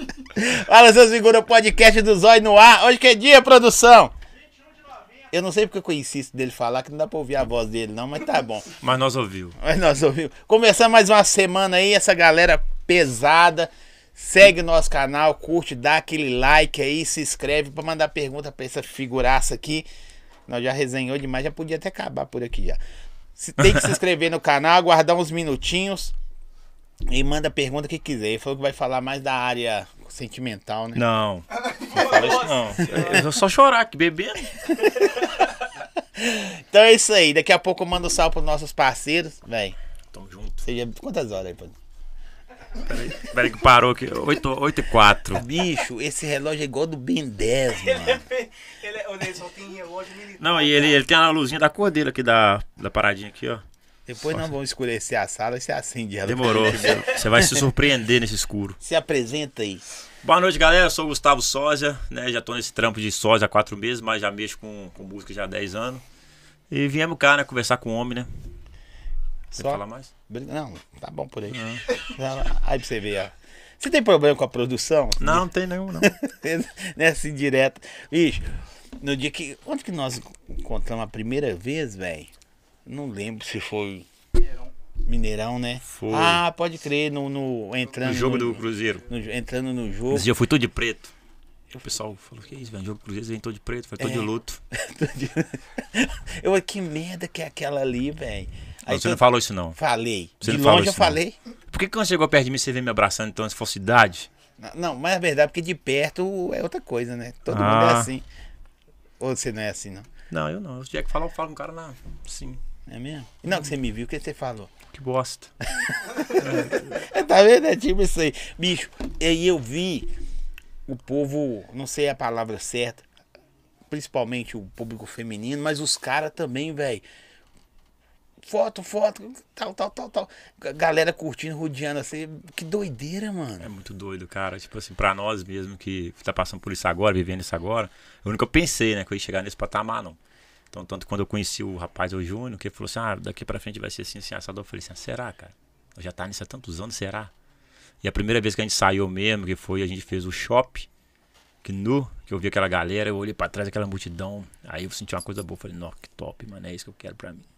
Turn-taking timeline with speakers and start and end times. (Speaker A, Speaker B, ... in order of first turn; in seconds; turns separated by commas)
Speaker A: 0.2-4.1, Speaker A: 5.3-8.8, Speaker B: 8.8-9.6, Speaker A: 9.6-19.9, Speaker A: 20.5-22.8, Speaker A: 23.4-26.1, Speaker B: 23.6-23.9, Speaker A: 27.1-31.0, Speaker B: 30.9-34.8, Speaker A: 31.9-33.2, Speaker A: 34.6-35.4, Speaker A: 36.1-39.8, Speaker B: 40.1-40.6, Speaker A: 40.6-41.8, Speaker B: 42.8-45.4, Speaker A: 45.3-48.2, Speaker C: 47.7-51.0, Speaker B: 50.4-53.6, Speaker A: 54.1-57.7, Speaker B: 56.2-58.8, Speaker A: 58.8-59.8, Speaker B: 60.2-66.0, Speaker B: 66.7-68.3, Speaker B: 69.5-70.1, Speaker A: 69.5-82.3, Speaker B: 71.5-71.8, Speaker B: 75.2-76.1, Speaker A: 82.8-84.0, Speaker A: 85.0-90.3, Speaker B: 85.8-86.4, Speaker B: 88.0-89.0, Speaker B: 90.1-91.1, Speaker B: 91.7-94.6, Speaker A: 94.0-99.2, Speaker B: 98.8-99.8, Speaker A: 99.7-101.3, Speaker B: 100.4-101.2, Speaker B: 101.7-104.3, Speaker A: 104.6-108.2, Speaker B: 107.5-108.1, Speaker A: 109.2-110.1, Speaker B: 110.3-112.6, Speaker A: 112.9-114.7, Speaker B: 114.9-115.5, Speaker A: 115.6-120.1, Speaker B: 116.4-117.0, Speaker A: 120.8-123.0, Speaker A: 123.9-127.0, Speaker A: 128.4-133.7, Speaker B: 133.6-140.2, Speaker B: 140.7-147.3, Speaker B: 148.0-150.9, Speaker B: 151.6-157.4